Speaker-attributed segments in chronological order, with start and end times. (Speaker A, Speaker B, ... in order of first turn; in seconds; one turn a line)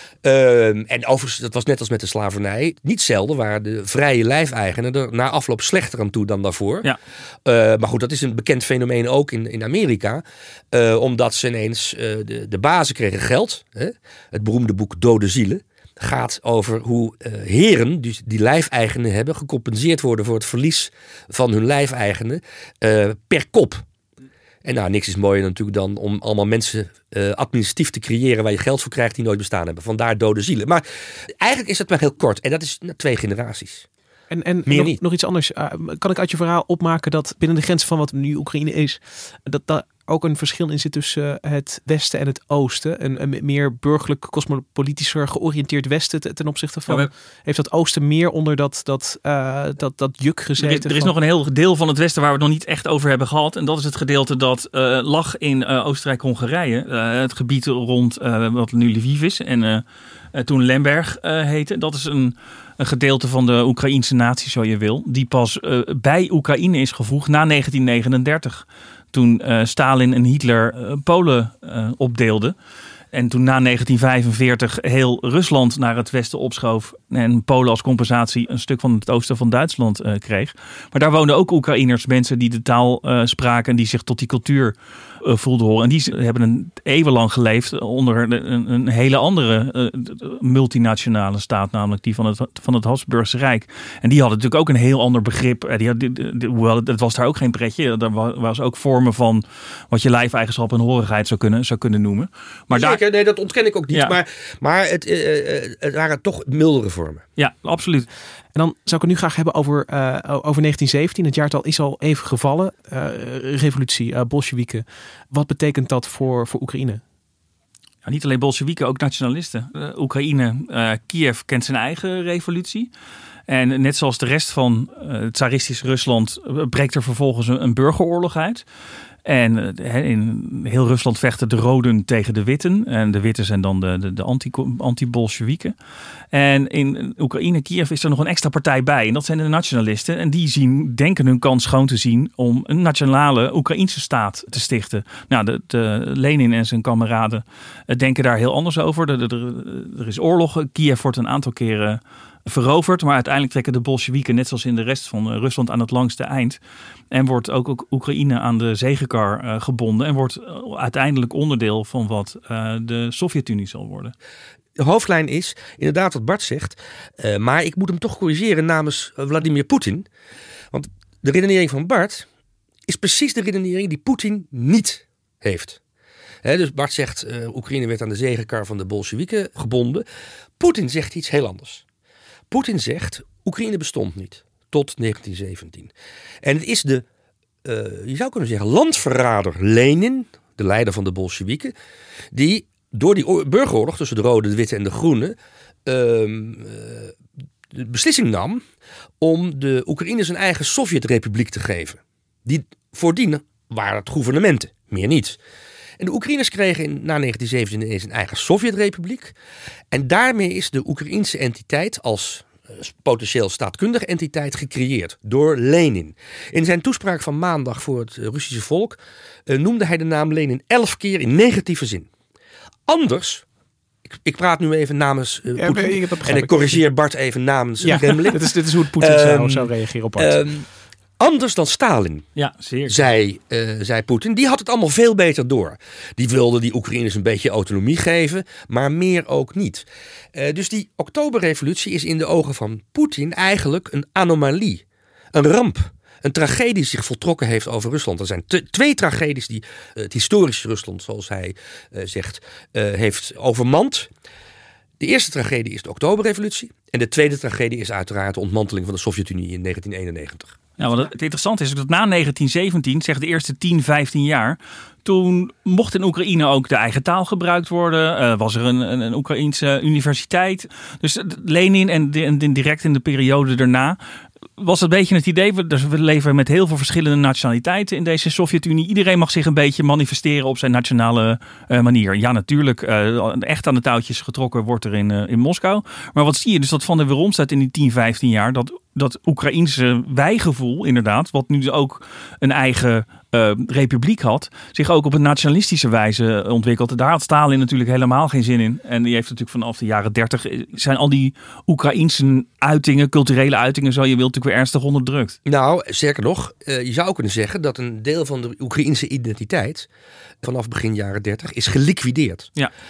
Speaker A: 0.2-6.9
Speaker A: 7.5-23.8
Speaker A: 24.6-30.8
Speaker A: 31.4-33.9
Speaker B: 34.3-51.1
Speaker A: 34.7-35.0
Speaker C: 50.6-72.5
Speaker C: 73.1-103.0
Speaker A: 102.7-107.2
Speaker C: 103.9-104.2
Speaker C: 107.4-108.1
Speaker B: 108.5-117.0
Speaker C: 118.0-122.9
Speaker C: 123.5-128.6
Speaker C: 129.2-135.7
Speaker C: 136.3-156.6
Speaker C: 157.1-164.1
Speaker A: 164.8-170.1
Speaker A: 170.7-172.2
Speaker A: 172.9-175.8
Speaker A: 176.4-180.0
Speaker A: 180.6-181.8
Speaker A: 182.5-185.9
Speaker A: 186.4-187.0
Speaker A: 187.6-191.7
Speaker A: 192.3-197.1
Speaker A: 197.7-198.6
Speaker A: 199.2-205.4
Speaker A: 206.0-209.3
Speaker A: 209.9-222.1
Speaker A: 222.9-223.4
Speaker A: 224.2-230.7
Speaker B: 225.6-226.8
Speaker B: 227.8-230.4
Speaker A: 231.2-232.2
Speaker C: 232.3-233.0
Speaker A: 232.9-244.8
Speaker A: 245.3-254.1
Speaker A: 255.0-260.6
Speaker C: 260.8-274.0
Speaker C: 274.6-305.4
Speaker A: 305.4-309.9
Speaker A: 310.4-312.5